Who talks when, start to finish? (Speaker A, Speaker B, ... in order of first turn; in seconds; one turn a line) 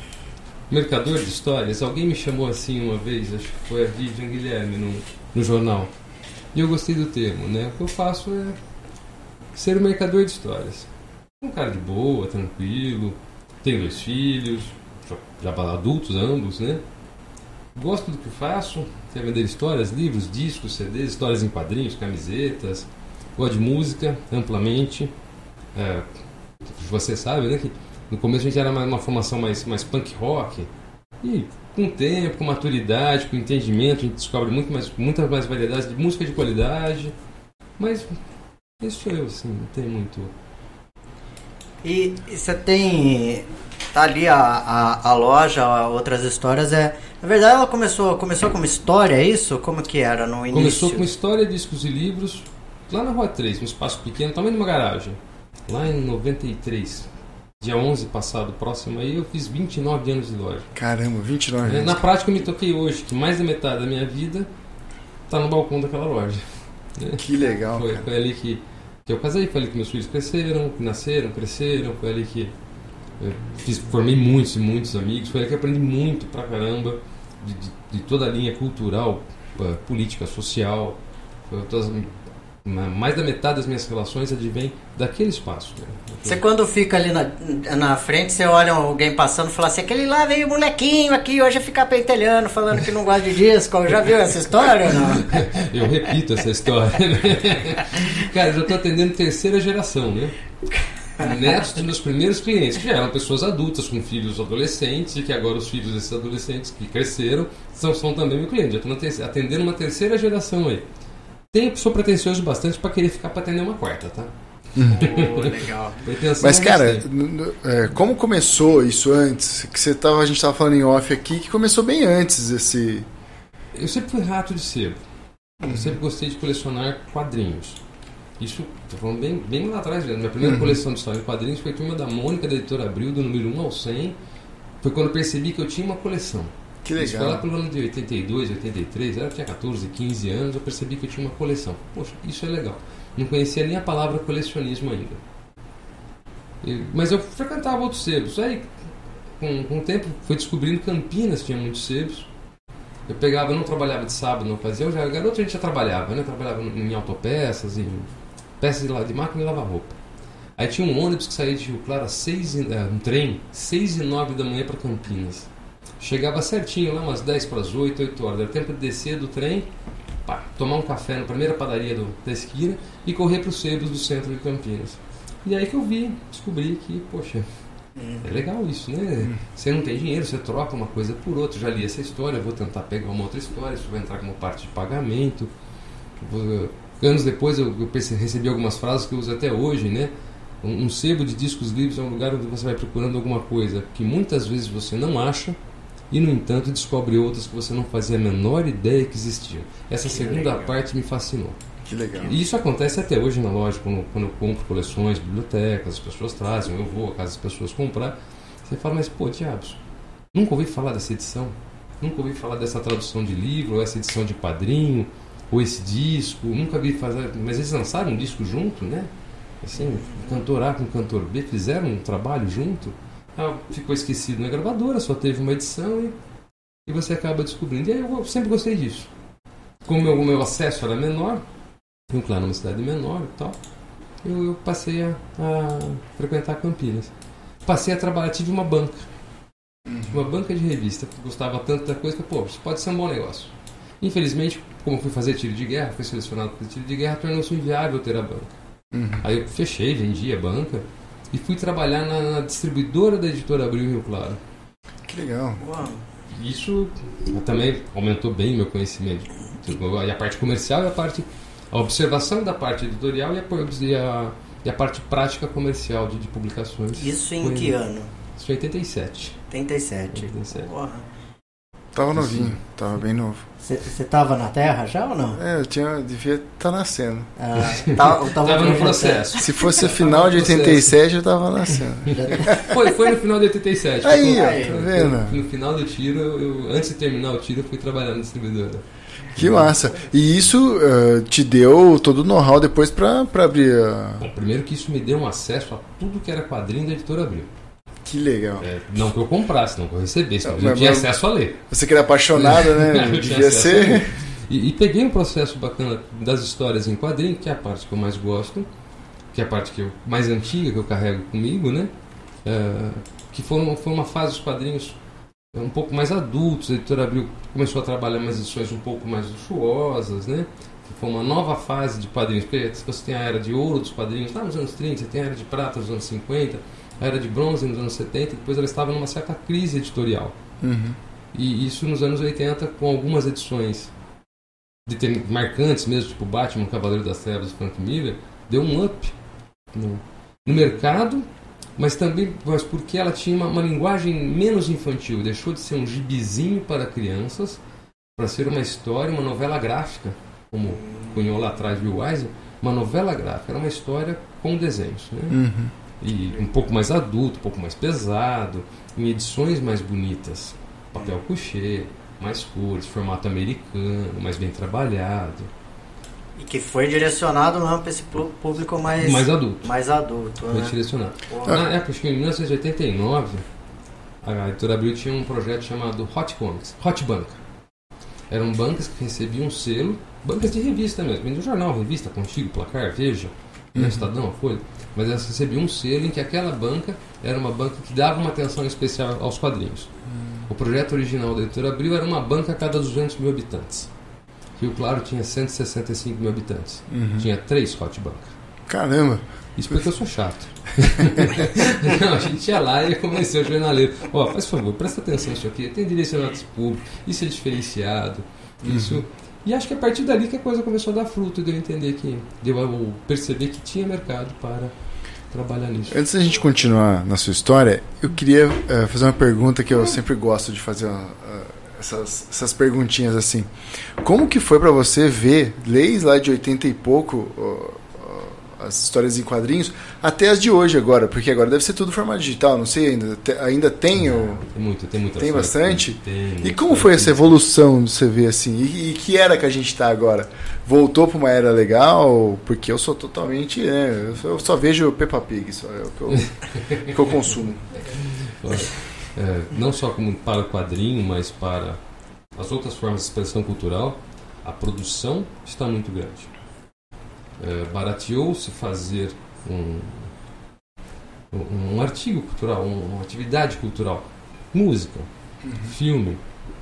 Speaker A: 0.7-5.9
Speaker A: 6.5-8.6
Speaker A: 9.5-10.9
Speaker A: 11.4-16.8
Speaker A: 17.7-25.1
Speaker A: 25.7-26.1
Speaker A: 26.6-30.7
Speaker A: 31.2-37.1
Speaker A: 37.8-38.1
Speaker A: 38.8-40.3
Speaker B: 41.8-51.1
Speaker A: 50.5-57.1
Speaker A: 57.6-60.7
Speaker C: 60.7-62.0
Speaker A: 61.6-64.5
Speaker A: 65.3-72.5
Speaker C: 67.2-68.0
Speaker A: 73.2-86.4
Speaker B: 86.2-95.3
Speaker A: 94.9-100.3
Speaker A: 101.2-110.8
Speaker A: 111.5-114.3
Speaker C: 114.8-115.0
Speaker B: 114.8-116.0
Speaker A: 115.0-117.0
Speaker C: 116.4-123.0
Speaker A: 123.7-125.0
Speaker C: 125.6-126.0
Speaker A: 125.6-127.8
Speaker A: 128.4-134.2
Speaker C: 130.4-130.8
Speaker A: 134.8-145.2
Speaker C: 136.8-137.4
Speaker A: 146.6-148.7
Speaker A: 149.4-152.3
Speaker A: 153.1-159.9
Speaker A: 160.6-165.5
Speaker A: 166.0-169.7
Speaker A: 170.2-177.5
Speaker B: 178.0-178.2
Speaker A: 178.2-185.5
Speaker A: 186.2-190.1
Speaker A: 190.6-195.6
Speaker A: 196.1-201.6
Speaker B: 200.1-200.7
Speaker C: 201.9-202.3
Speaker A: 202.2-209.8
Speaker A: 210.3-219.1
Speaker A: 219.6-226.1
Speaker B: 219.8-220.4
Speaker A: 226.8-229.1
Speaker A: 229.8-231.4
Speaker A: 232.1-233.6
Speaker A: 234.2-237.1
Speaker A: 237.6-239.1
Speaker C: 239.8-240.2
Speaker A: 240.1-248.5
Speaker C: 248.9-249.2
Speaker A: 249.2-254.4
Speaker C: 255.1-255.6
Speaker B: 255.6-256.0
Speaker A: 256.3-267.8
Speaker B: 267.0-268.1
Speaker A: 268.4-269.4
Speaker B: 269.5-271.0
Speaker A: 270.1-270.7
Speaker C: 271.9-273.4
Speaker A: 272.1-272.6
Speaker B: 273.6-275.4
Speaker C: 275.4-277.3
Speaker B: 277.4-279.3
Speaker A: 277.6-280.9
Speaker C: 279.4-282.6
Speaker A: 282.1-289.7
Speaker B: 282.1-282.7
Speaker C: 284.0-285.4
Speaker B: 284.2-284.8
Speaker C: 289.4-294.2
Speaker A: 294.2-297.5
Speaker C: 298.0-298.7
Speaker A: 298.6-301.6
Speaker C: 300.4-301.1
Speaker C: 301.7-304.1
Speaker A: 302.3-308.7
Speaker A: 309.3-311.9
Speaker A: 312.4-315.0
Speaker A: 315.5-330.4
Speaker C: 330.6-331.0
Speaker A: 331.3-333.9
Speaker A: 334.9-339.1
Speaker A: 339.7-341.2
Speaker A: 341.8-347.6
Speaker A: 348.1-355.4
Speaker B: 350.8-351.2
Speaker C: 355.3-355.7
Speaker A: 356.0-365.5
Speaker B: 366.4-370.7
Speaker A: 369.0-369.7
Speaker A: 370.5-373.4
Speaker B: 371.3-371.6
Speaker A: 374.2-377.4
Speaker A: 378.3-389.9
Speaker C: 383.7-384.1
Speaker C: 390.1-390.4
Speaker A: 390.5-393.9
Speaker A: 394.6-398.3
Speaker C: 396.9-397.3
Speaker C: 398.7-399.8
Speaker A: 399.6-414.7
Speaker C: 408.6-409.0
Speaker A: 415.3-416.0
Speaker C: 415.9-434.4
Speaker A: 434.0-437.3
Speaker C: 435.2-447.6
Speaker A: 448.0-451.8
Speaker A: 452.3-456.3
Speaker A: 457.4-460.1
Speaker A: 461.3-466.2
Speaker C: 465.4-465.7